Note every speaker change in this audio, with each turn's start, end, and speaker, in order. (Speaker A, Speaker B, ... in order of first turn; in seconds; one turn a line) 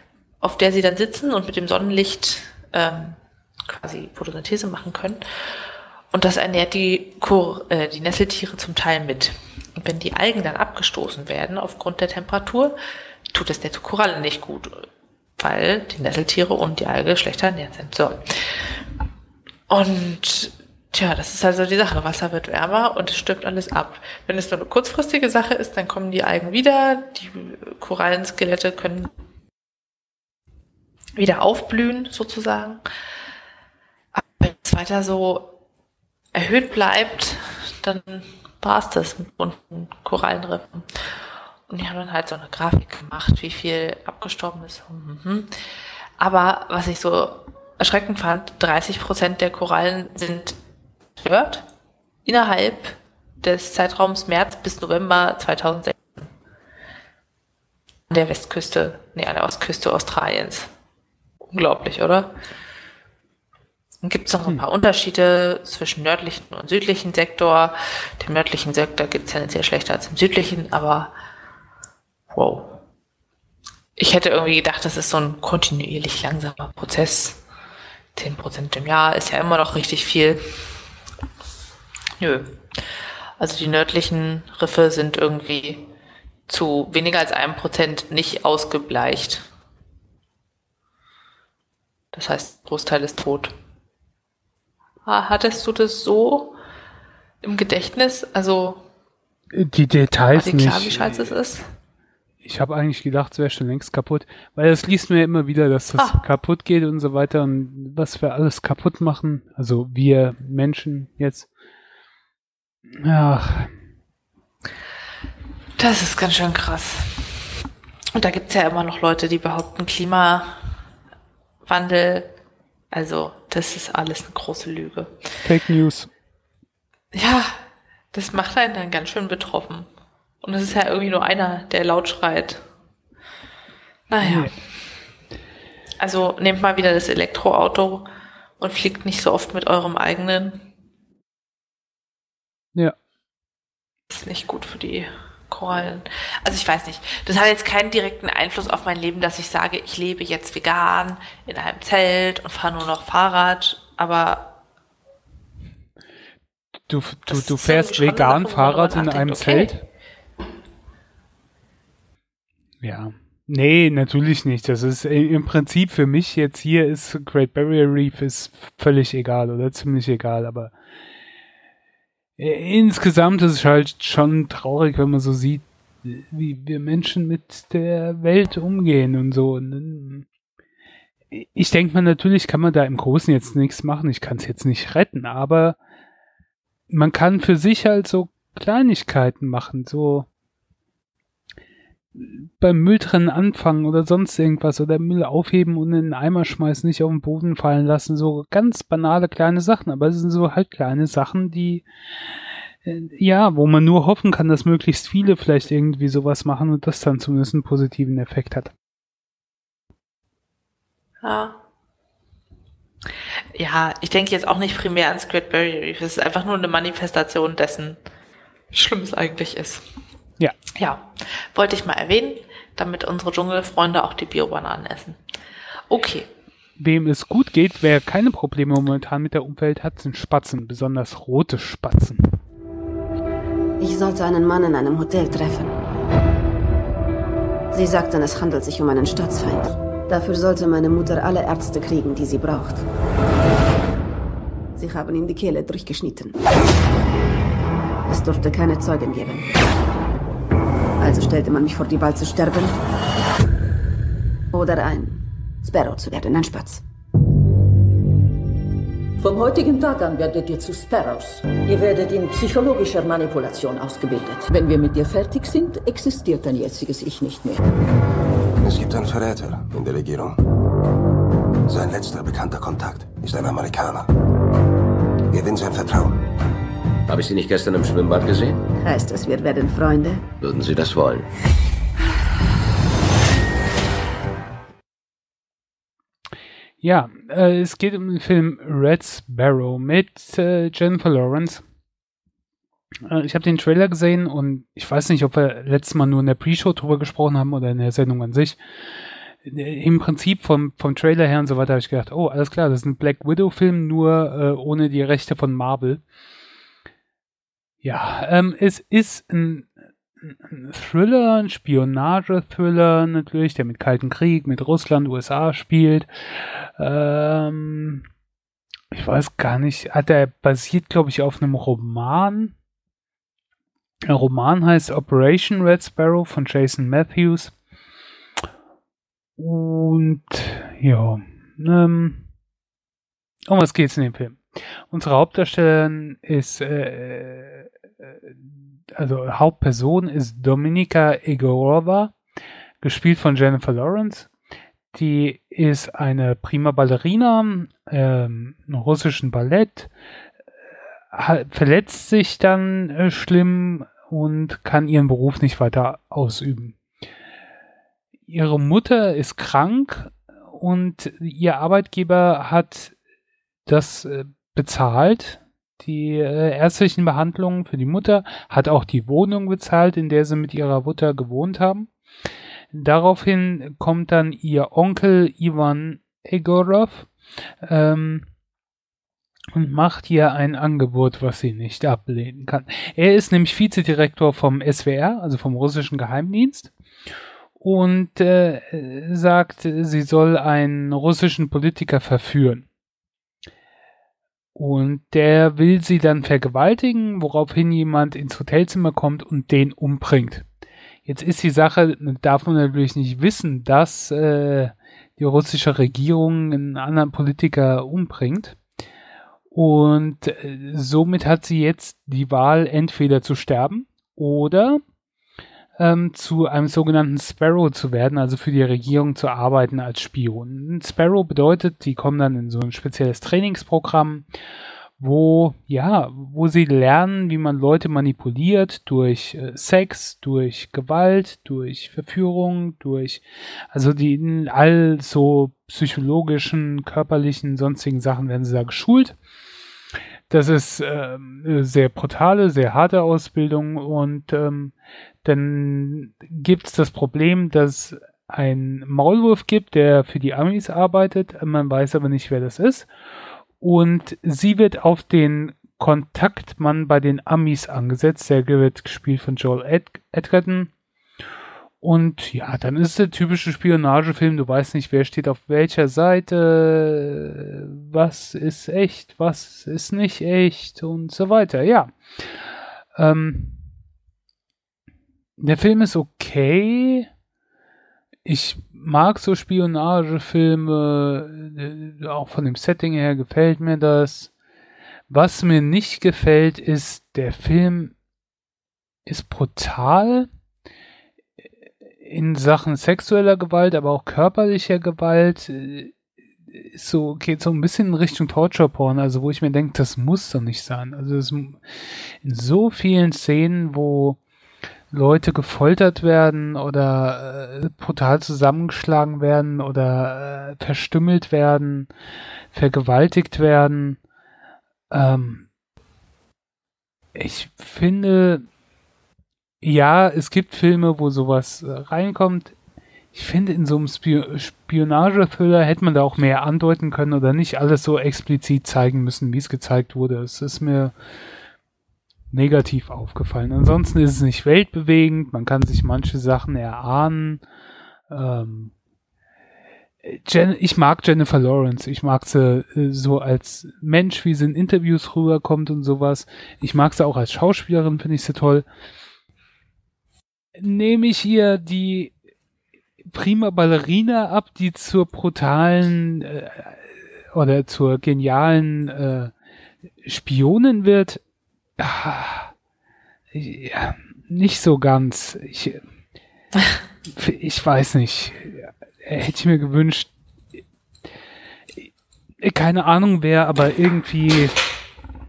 Speaker A: 0.4-5.2
Speaker A: 6.1-12.8
Speaker A: 13.3-14.8
Speaker A: 15.4-18.6
Speaker A: 19.7-29.1
Speaker A: 31.1-32.8
Speaker A: 34.1-35.6
Speaker A: 36.3-41.0
Speaker A: 41.7-45.5
Speaker A: 46.2-50.6
Speaker A: 51.2-51.6
Speaker A: 52.2-56.3
Speaker A: 58.1-60.7
Speaker A: 61.5-62.3
Speaker A: 64.0-71.1
Speaker A: 72.3-72.8
Speaker A: 74.0-77.4
Speaker A: 78.1-80.6
Speaker A: 82.2-82.6
Speaker A: 83.4-85.9
Speaker A: 86.5-89.5
Speaker A: 92.1-93.5
Speaker A: 95.0-96.5
Speaker A: 97.4-98.8
Speaker B: 99.5-101.3
Speaker A: 100.3-101.6
Speaker B: 102.4-111.5
Speaker A: 106.0-106.2
Speaker B: 113.0-113.7
Speaker A: 115.8-117.5
Speaker A: 118.1-120.6
Speaker A: 121.6-122.3
Speaker A: 122.9-125.1
Speaker B: 125.4-126.1
Speaker A: 127.1-127.6
Speaker A: 128.1-129.9
Speaker A: 130.4-132.6
Speaker A: 134.1-134.5
Speaker B: 134.2-134.5
Speaker A: 136.0-138.1
Speaker A: 138.6-140.7
Speaker A: 144.1-154.5
Speaker B: 156.9-159.8
Speaker A: 157.3-159.8
Speaker B: 162.8-170.7
Speaker B: 172.4-180.3
Speaker B: 181.3-185.8
Speaker B: 186.9-190.3
Speaker B: 192.1-201.8
Speaker B: 202.8-208.7
Speaker A: 211.2-211.6
Speaker A: 213.5-218.0
Speaker A: 218.7-219.8
Speaker A: 220.8-225.2
Speaker A: 225.9-226.3
Speaker B: 226.8-232.3
Speaker C: 233.8-235.8
Speaker C: 237.7-242.8
Speaker C: 244.8-246.4
Speaker C: 248.1-249.5
Speaker C: 251.0-252.8
Speaker C: 254.5-256.8
Speaker D: 259.2-267.6
Speaker E: 268.6-270.4
Speaker E: 271.7-274.1
Speaker E: 275.3-276.2
Speaker F: 277.1-278.6
Speaker C: 278.8-280.3
Speaker F: 280.4-281.2
Speaker B: 286.8-291.6
Speaker B: 293.1-306.0
Speaker B: 307.8-318.0
Speaker B: 318.9-322.5
Speaker B: 324.1-327.5
Speaker B: 329.4-332.2
Speaker B: 333.5-342.1
Speaker B: 342.8-344.3
Speaker B: 344.9-349.9
Speaker B: 351.1-356.8
Speaker B: 358.3-362.9
Speaker B: 363.6-371.9
Speaker B: 372.7-377.1
Speaker B: 377.6-378.3
Speaker B: 379.5-386.7
Speaker B: 387.6-392.7
Speaker B: 394.5-400.4
Speaker B: 401.1-408.6
Speaker B: 409.5-414.8
Speaker B: 415.8-424.3
Speaker B: 425.0-439.1
Speaker B: 440.3-452.9
Speaker B: 453.6-460.7
Speaker B: 461.8-473.6
Speaker B: 475.4-477.1
Speaker B: 478.2-484.3
Speaker B: 485.1-487.9
Speaker B: 489.1-490.3
Speaker B: 492.0-495.9
Speaker B: 496.5-504.2
Speaker B: 504.9-511.9
Speaker B: 512.5-514.0
Speaker B: 514.9-515.5
Speaker B: 517.1-518.4
Speaker B: 519.6-522.5
Speaker B: 523.1-530.9
Speaker B: 532.3-537.4
Speaker B: 538.1-538.7
Speaker B: 540.0-548.6
Speaker B: 550.6-552.1
Speaker B: 553.1-559.3
Speaker B: 560.0-561.2
Speaker B: 561.8-562.5
Speaker B: 563.3-565.8
Speaker B: 567.1-570.1
Speaker B: 572.4-574.6